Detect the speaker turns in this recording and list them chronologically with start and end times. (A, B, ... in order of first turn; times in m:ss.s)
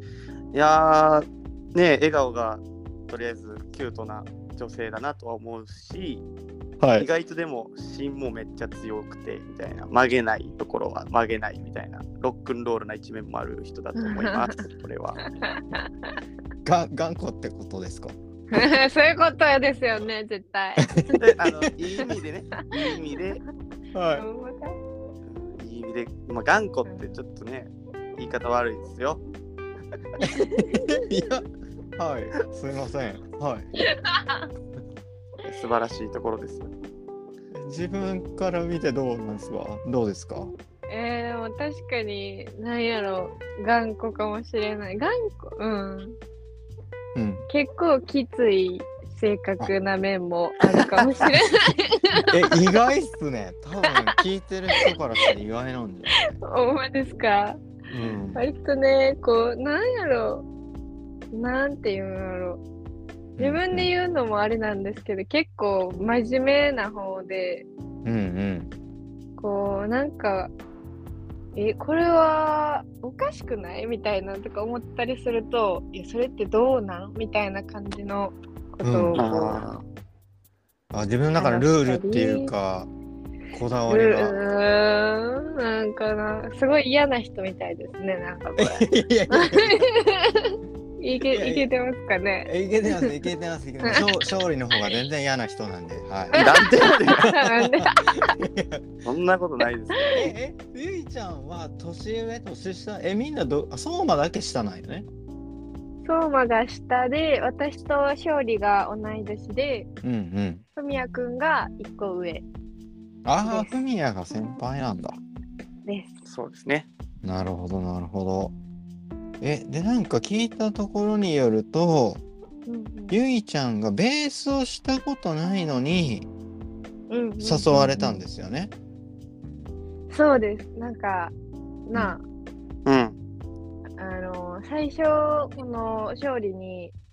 0:00.5-0:06.2 A
0:06.8-0:07.1 B
0:07.0-0:15.2 A
0:14.0-0:14.6 C
0:15.2-0:16.2 C
0:16.6-0:18.1 B
0:18.5-0:20.9 C
0:20.8-0:22.1 B
0:21.2-0:23.4 A
0:23.9-0:24.2 B
0:24.1-0:24.8 C
0:25.2-0:29.2 A
0:26.8-0:27.1 C
0:30.2-0:31.4 B
0:30.2-0:31.1 C
0:32.0-0:33.7 B
0:33.8-0:34.5 C
0:35.4-0:36.7 A
0:37.5-0:40.5 B
0:40.9-0:46.2 C
0:47.1-0:47.4 B
0:47.5-0:52.8 C
0:50.8-0:51.4 B
0:52.1-0:56.4 B
0:56.2-0:57.6 C
0:57.9-0:58.4 B
0:58.3-1:00.4 C
1:01.3-1:02.6 C
1:03.4-1:03.9 B
1:03.4-1:07.7 C
1:08.0-1:08.7 B
1:09.4-1:10.5 C
1:11.5-1:19.7 C
1:18.8-1:19.2 B
1:19.2-1:19.8 A
1:20.9-1:22.9 B
1:21.3-1:22.5 C
1:23.5-1:24.4 B
1:23.9-1:33.1 C
1:28.6-1:29.9 B
1:31.2-1:31.7 B
1:32.4-1:36.5 B
1:36.3-1:37.3 A
1:36.4-1:38.3 C
1:37.2-1:38.8 B
1:39.0-1:40.0 A
1:40.0-1:40.3 C
1:40.1-1:45.1 B
1:46.0-1:49.9 C
1:50.0-1:50.6 B
1:50.8-1:52.4 C
1:53.2-1:55.2 B
1:53.4-1:53.8 C
1:55.8-1:56.1 C
1:56.2-1:56.9 A
1:57.2-1:58.5 B
1:59.4-2:02.2 B
2:02.6-2:03.2 C
2:03.1-2:06.3 B
2:07.1-2:08.2 C
2:07.4-2:08.7 B
2:10.1-2:11.3 C
2:11.9-2:12.2 C
2:12.8-2:13.2 A
2:14.0-2:16.9 C